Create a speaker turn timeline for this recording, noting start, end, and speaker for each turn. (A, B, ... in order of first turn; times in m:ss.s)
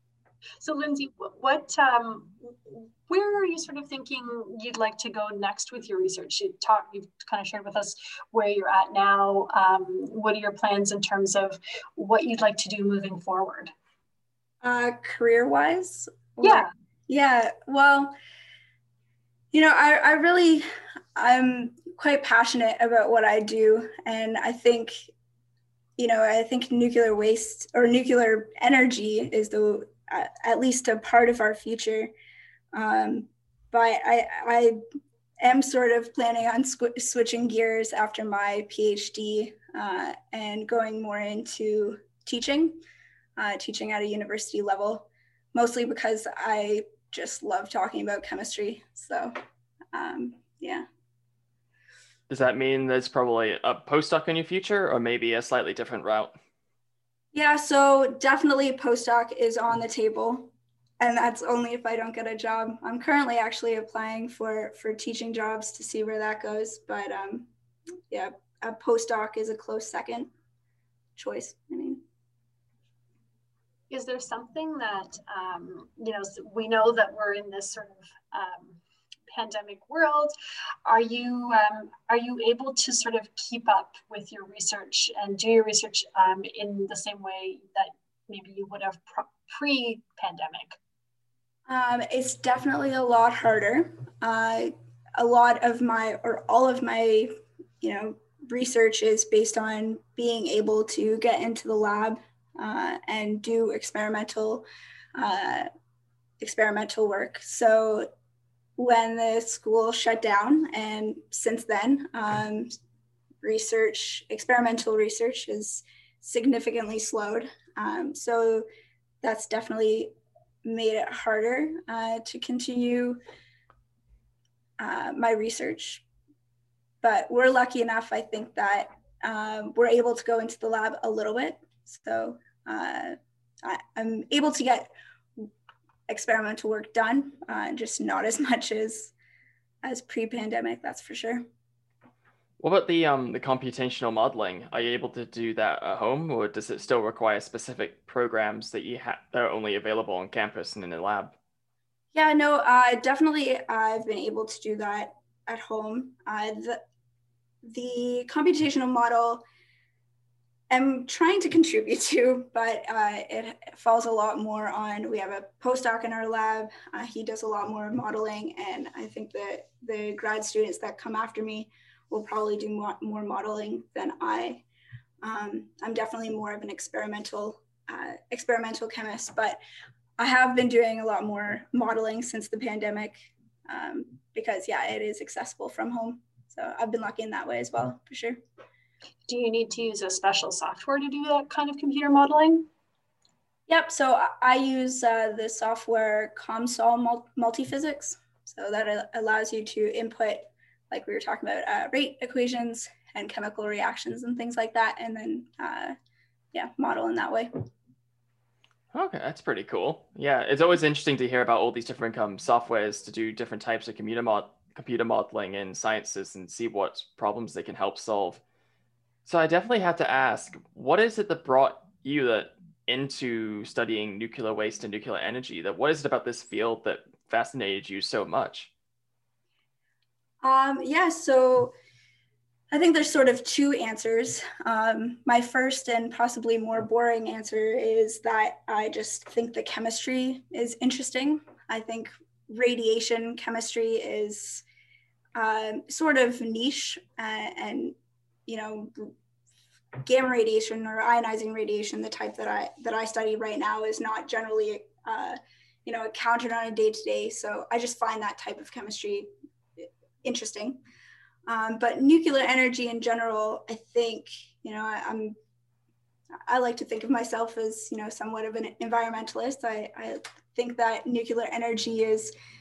0:00.6-0:13.7 A
0:14.6-0:18.2 B
0:16.4-0:16.7 A
0:19.5-0:25.1 B
0:26.0-0:32.1 B
0:32.7-0:34.8 B
0:35.4-0:42.8 B
0:43.4-0:49.3 B
0:49.9-0:50.9 B
0:52.3-0:56.4 C
0:57.3-1:07.5 B
1:08.1-1:10.3 B
1:11.2-1:12.0 B
1:13.9-1:18.8 A
1:19.3-1:20.3 A
1:20.8-1:30.8 A
1:31.7-1:45.7 B
1:46.4-1:48.1 B
1:48.8-1:52.7 B
1:53.4-1:58.6 B
1:59.2-2:03.2 B
2:04.8-2:06.0 B
2:07.0-2:15.5 B
2:16.1-2:19.1 B
2:19.8-2:21.4 B
2:22.6-2:31.4 C
2:32.1-2:36.8 B
2:37.6-2:39.4 B
2:40.7-2:54.6 B
2:55.2-2:59.6 B
3:00.2-3:08.4 B
3:09.3-3:12.7 A
3:13.7-3:26.0 B
3:26.5-3:27.6 B
3:28.9-3:38.4 C
3:39.3-3:48.7 C
3:50.4-3:51.7 B
3:52.7-4:04.6 B
4:05.4-4:08.0 B
4:08.5-4:09.1 B
4:10.0-4:20.8 B
4:21.5-4:25.4 B
4:26.5-4:32.3 B